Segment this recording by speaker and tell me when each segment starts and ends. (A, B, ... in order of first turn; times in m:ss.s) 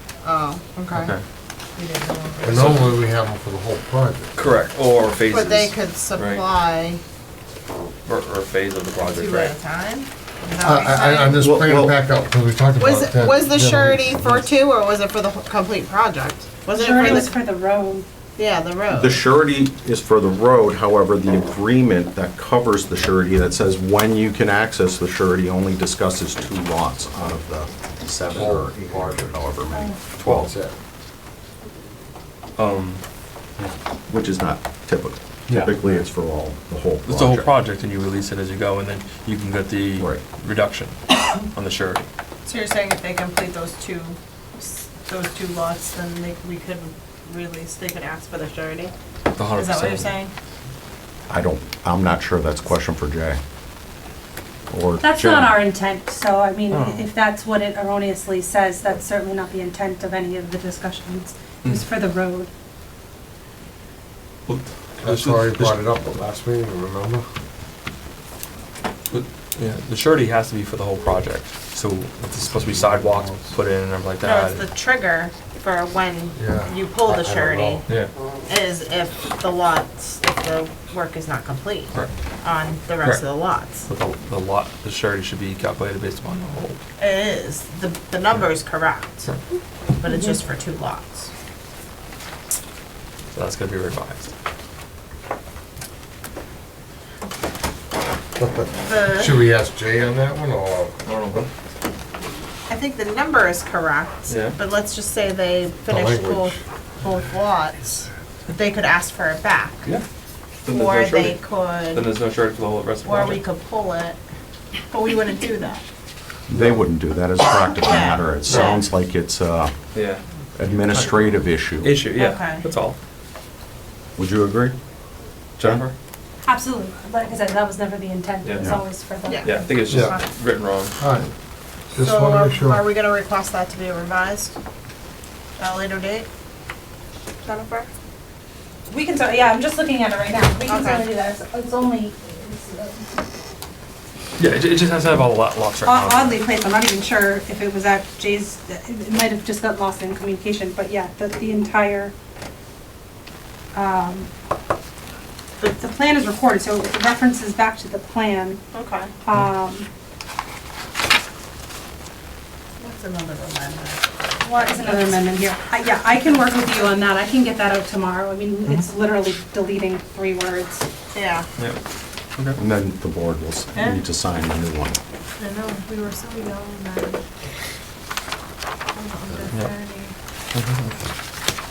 0:00.2-0:01.1 A
0:00.9-0:01.2 B
0:01.8-0:02.8 A
0:02.4-0:04.3 C
0:02.5-0:02.8 B
0:04.4-0:06.4 B
0:05.3-0:07.0 A
0:08.0-0:09.5 B
0:09.0-0:11.4 A
0:10.6-0:14.4 C
0:11.4-0:11.9 D
0:12.8-0:17.4 A
0:16.7-0:18.0 E
0:18.4-0:19.2 A
0:18.9-0:30.5 D
0:28.3-0:29.4 C
0:30.2-0:30.5 B
0:30.3-0:30.7 C
0:32.6-0:33.0 B
0:34.1-0:37.5 D
0:37.0-0:42.1 B
0:42.4-0:48.9 A
0:49.4-0:50.1 B
0:49.5-0:50.3 A
0:51.3-0:53.4 D
0:54.7-0:55.6 D
0:55.0-1:02.5 E
0:56.7-0:57.1 B
1:04.5-1:05.8 B
1:05.0-1:07.2 C
1:09.1-1:14.6 B
1:12.5-1:13.5 C
1:14.2-1:17.8 A
1:16.4-1:17.9 C
1:18.5-1:23.9 A
1:23.8-1:26.8 B
1:27.0-1:29.3 A
1:30.0-1:31.3 A
1:33.3-1:34.3 B
1:38.4-1:40.9 C
1:38.8-1:39.4 A
1:41.0-1:41.5 B
1:42.7-1:49.9 A
1:44.3-1:44.6 B
1:45.9-1:46.6 C
1:50.6-1:53.4 B
1:50.6-1:52.1 A
1:53.0-1:54.2 A
1:54.9-1:55.8 A
1:56.5-1:59.7 D
1:56.5-1:56.8 C
1:57.8-1:58.8 A
1:59.9-2:00.2 B
2:00.6-2:01.9 D
2:01.8-2:03.0 B
2:02.2-2:02.6 A
2:04.2-2:04.7 D
2:05.6-2:05.9 B
2:06.4-2:10.2 E
2:08.4-2:08.8 B
2:09.4-2:10.9 B
2:09.9-2:10.2 C
2:11.0-2:11.3 C
2:11.9-2:12.8 C
2:12.0-2:14.6 A
2:15.6-2:16.3 A
2:17.4-2:17.9 A
2:18.9-2:23.2 E
2:20.7-2:21.1 A
2:24.4-2:26.4 B
2:25.8-2:32.1 E
2:33.7-2:34.3 E
2:35.6-2:38.6 E
2:38.7-2:39.1 A
2:39.2-2:39.9 E
2:42.8-2:45.3 A
2:44.4-2:50.8 E
2:51.1-2:51.5 A
2:52.6-2:55.0 D
2:53.7-2:54.0 A
2:55.4-2:57.2 A
2:58.9-3:00.1 A
3:00.5-3:01.0 B